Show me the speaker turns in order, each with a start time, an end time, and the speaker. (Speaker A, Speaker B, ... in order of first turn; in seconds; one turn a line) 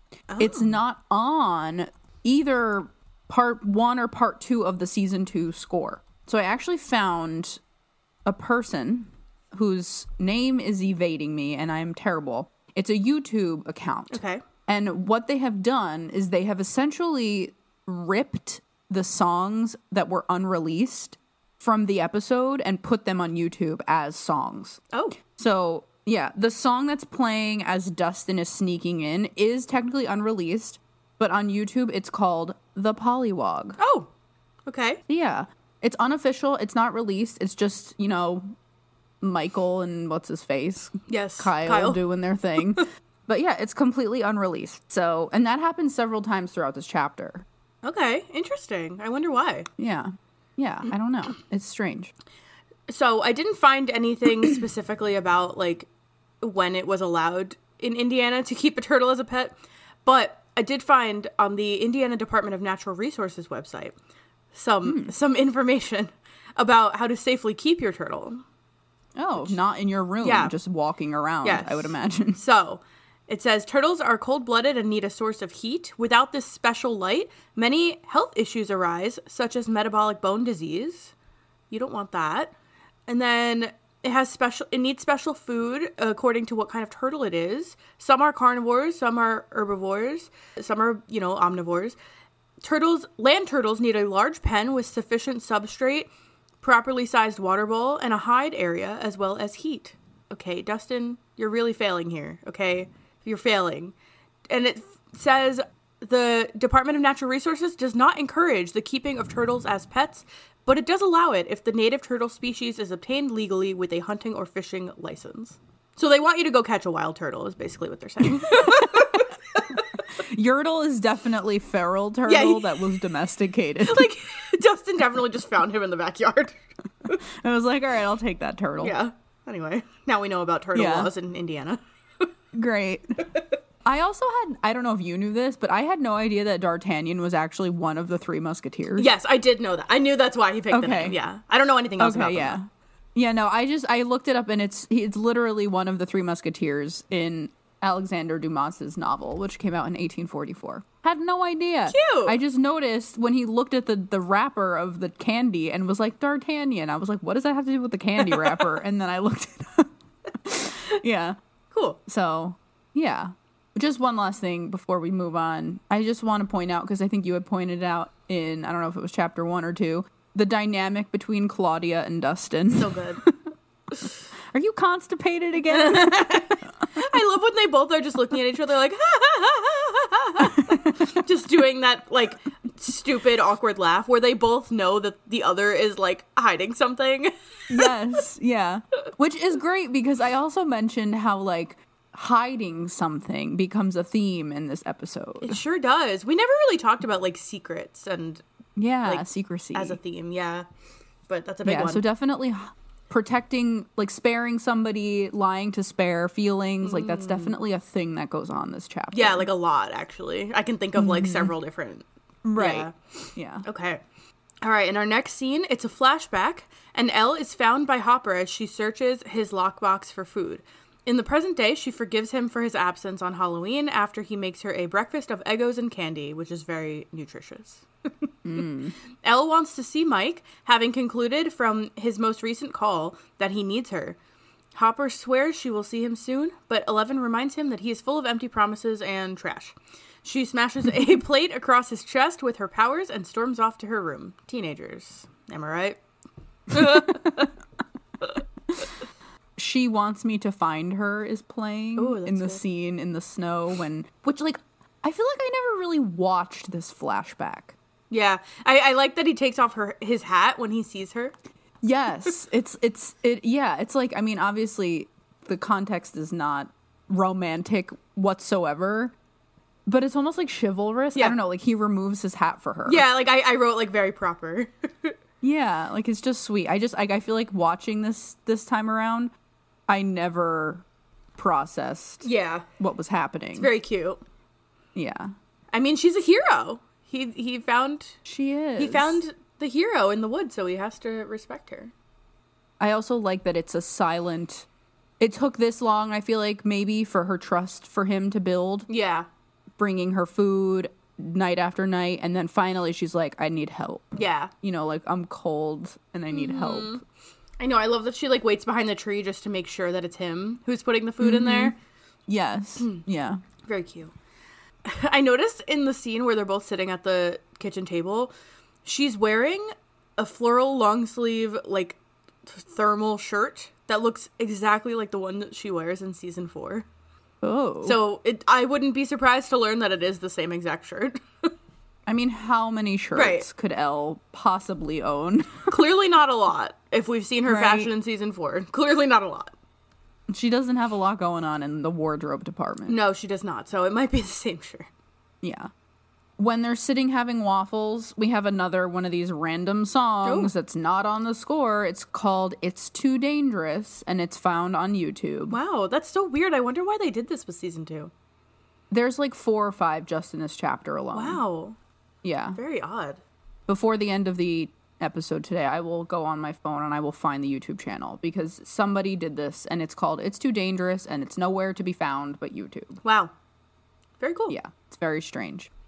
Speaker A: 0.3-0.8
Speaker B: 0.4-7.6
Speaker B: 8.2-24.8
Speaker A: 14.1-14.4
Speaker B: 25.4-33.8
Speaker A: 33.8-34.1
Speaker A: 34.7-35.0
Speaker B: 35.1-38.5
Speaker B: 39.2-47.5
Speaker A: 41.1-42.0
Speaker A: 47.8-49.7
Speaker B: 49.8-52.1
Speaker A: 52.9-55.9
Speaker A: 56.4-63.9
Speaker A: 64.5-68.4
Speaker B: 64.8-65.1
Speaker B: 69.2-72.4
Speaker A: 70.2-70.5
Speaker A: 71.4-81.1
Speaker A: 81.7-82.5
Speaker A: 83.1-92.0
Speaker A: 92.6-96.1
Speaker A: 96.6-103.9
Speaker A: 104.5-119.8
Speaker B: 118.4-119.2
Speaker B: 120.1-124.1
Speaker A: 122.3-123.0
Speaker A: 123.8-126.5
Speaker B: 127.2-128.9
Speaker A: 128.8-131.8
Speaker B: 130.7-131.1
Speaker B: 132.5-133.2
Speaker B: 133.8-139.1
Speaker A: 139.0-142.6
Speaker B: 140.7-141.2
Speaker B: 142.0-161.4
Speaker A: 151.9-152.3
Speaker A: 161.7-162.0
Speaker B: 162.1-173.3
Speaker A: 172.7-173.2
Speaker B: 174.5-176.6
Speaker A: 175.7-187.9
Speaker B: 180.5-181.1
Speaker B: 187.7-195.6
Speaker A: 195.4-198.4
Speaker B: 198.8-200.0
Speaker A: 199.1-200.6
Speaker A: 201.3-202.0
Speaker B: 201.6-209.5
Speaker A: 206.8-207.5
Speaker A: 209.1-214.0
Speaker B: 210.9-211.5
Speaker B: 212.4-213.6
Speaker A: 214.6-228.3
Speaker B: 228.4-228.9
Speaker A: 229.2-234.2
Speaker A: 234.7-246.0
Speaker A: 246.7-247.5
Speaker B: 246.8-247.1
Speaker B: 249.6-257.7
Speaker A: 252.0-252.6
Speaker A: 258.1-261.3
Speaker B: 261.8-269.1
Speaker B: 269.9-273.1
Speaker A: 272.9-275.1
Speaker B: 275.4-279.3
Speaker B: 279.9-280.8
Speaker B: 281.4-282.3
Speaker A: 282.2-282.6
Speaker B: 282.8-283.7
Speaker A: 283.5-284.2
Speaker B: 284.9-285.3
Speaker A: 285.7-288.2
Speaker B: 288.2-289.2
Speaker A: 288.8-291.9
Speaker B: 292.8-294.7
Speaker B: 295.2-298.9
Speaker A: 298.9-299.3
Speaker B: 299.8-307.0
Speaker A: 304.1-304.5
Speaker A: 306.3-307.0
Speaker A: 307.6-311.8
Speaker B: 311.2-311.7
Speaker B: 312.3-313.4
Speaker A: 313.6-314.1
Speaker A: 314.8-318.3
Speaker A: 318.8-326.8
Speaker B: 327.4-328.0
Speaker A: 327.8-331.5
Speaker B: 332.1-335.7
Speaker A: 333.1-333.4
Speaker A: 335.7-339.5
Speaker B: 337.5-337.9
Speaker B: 340.3-343.0
Speaker A: 342.9-344.9
Speaker B: 345.4-345.7
Speaker B: 346.4-355.6
Speaker A: 350.2-350.5
Speaker A: 355.5-358.1
Speaker B: 358.9-361.4
Speaker A: 361.1-361.8
Speaker B: 362.2-362.6
Speaker A: 362.5-363.2
Speaker B: 363.7-373.0
Speaker A: 373.0-373.3
Speaker A: 374.2-374.6
Speaker B: 374.5-375.7